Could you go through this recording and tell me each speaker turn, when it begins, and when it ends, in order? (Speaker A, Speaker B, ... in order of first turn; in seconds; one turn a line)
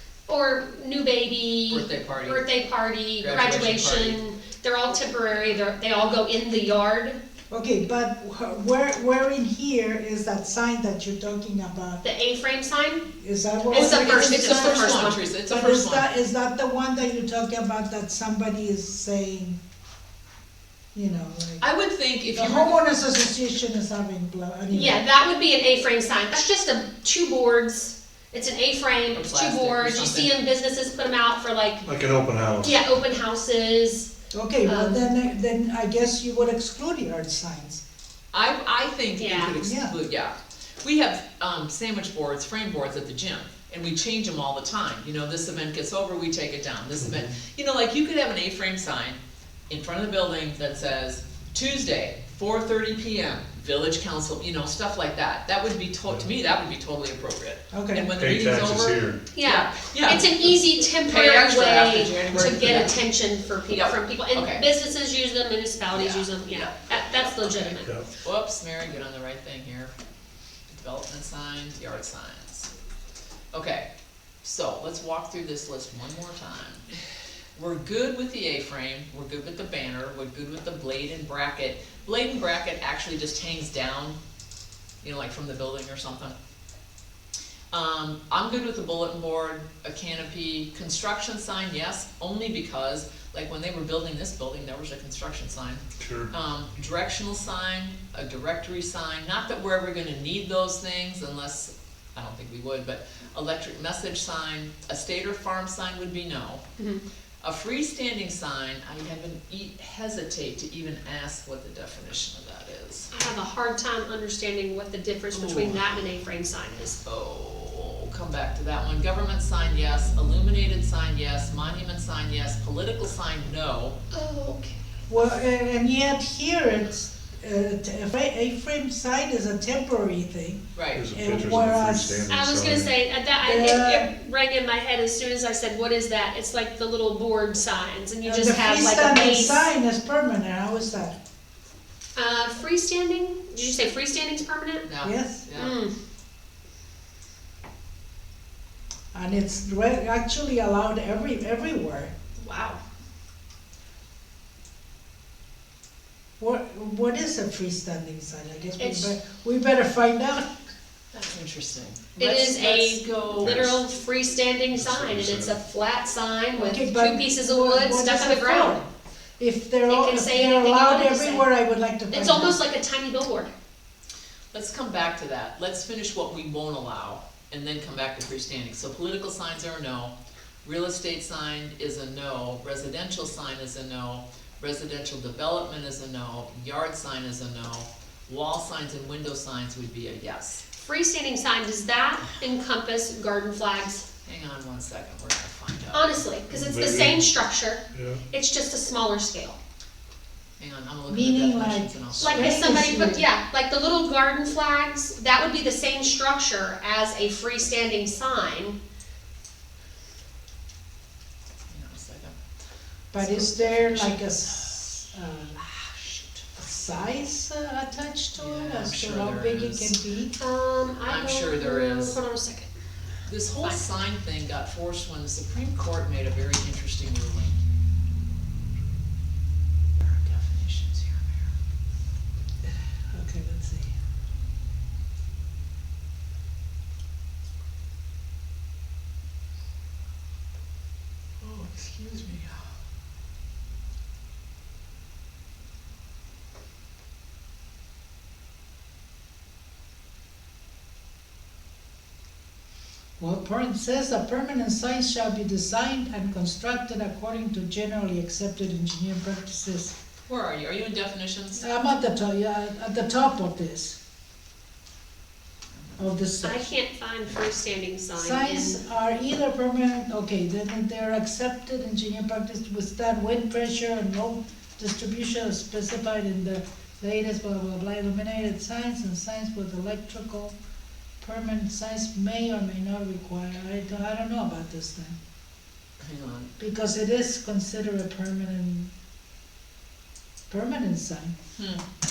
Speaker A: 0.3-7.2
Speaker B: 1.7-2.5
Speaker B: 3.2-4.2
Speaker C: 7.5-12.0
Speaker A: 12.0-13.1
Speaker C: 13.1-19.6
Speaker A: 13.7-15.2
Speaker B: 13.7-16.1
Speaker C: 20.9-21.6
Speaker B: 21.6-22.8
Speaker C: 22.3-25.0
Speaker A: 24.7-31.9
Speaker B: 29.1-30.4
Speaker D: 31.9-32.8
Speaker A: 32.6-34.1
Speaker C: 34.3-37.8
Speaker A: 34.7-35.1
Speaker B: 38.3-63.0
Speaker A: 39.2-39.5
Speaker C: 39.6-40.0
Speaker D: 47.0-47.3
Speaker C: 57.7-58.1
Speaker D: 58.1-59.2
Speaker A: 59.3-67.9
Speaker B: 63.7-64.7
Speaker B: 65.9-69.9
Speaker B: 70.7-72.7
Speaker B: 73.5-73.9
Speaker B: 74.4-76.8
Speaker B: 77.5-84.2
Speaker B: 85.0-86.3
Speaker B: 87.7-106.7
Speaker D: 96.0-96.3
Speaker A: 106.8-107.0
Speaker B: 107.4-113.1
Speaker A: 113.1-117.0
Speaker B: 115.3-116.0
Speaker B: 117.0-124.0
Speaker A: 124.1-124.9
Speaker C: 125.1-132.2
Speaker B: 130.8-131.0
Speaker D: 130.9-132.9
Speaker A: 132.3-139.7
Speaker C: 133.4-134.1
Speaker C: 138.2-141.2
Speaker A: 142.2-144.9
Speaker B: 144.8-145.8
Speaker C: 145.0-145.4
Speaker A: 145.6-145.9
Speaker C: 149.1-152.1
Speaker A: 152.4-152.8
Speaker C: 156.4-160.6
Speaker A: 158.8-159.1
Speaker B: 161.2-163.6
Speaker A: 162.2-168.8
Speaker D: 163.4-163.8
Speaker D: 164.7-165.5
Speaker C: 166.6-172.6
Speaker A: 169.9-171.5
Speaker A: 172.1-173.5
Speaker B: 174.5-190.6
Speaker A: 190.7-194.1
Speaker B: 194.2-196.2
Speaker A: 195.9-199.6
Speaker D: 196.5-197.3
Speaker D: 197.9-198.2
Speaker B: 200.6-202.8
Speaker C: 201.1-203.2
Speaker A: 202.2-208.8
Speaker B: 211.7-212.4
Speaker B: 213.1-215.0
Speaker C: 213.1-215.6
Speaker B: 215.5-216.4
Speaker C: 216.6-220.3
Speaker B: 218.3-220.0
Speaker A: 220.4-222.7
Speaker B: 221.1-222.2
Speaker B: 223.3-227.6
Speaker A: 223.6-223.9
Speaker B: 230.0-231.5
Speaker C: 232.7-233.9
Speaker C: 241.4-242.6
Speaker C: 253.2-260.0
Speaker B: 260.3-261.6
Speaker C: 261.6-264.0
Speaker C: 266.0-266.7
Speaker A: 266.4-268.8
Speaker C: 268.2-280.6
Speaker C: 281.2-285.2
Speaker B: 286.0-286.5
Speaker C: 286.6-288.9
Speaker C: 290.5-291.4
Speaker B: 291.6-291.8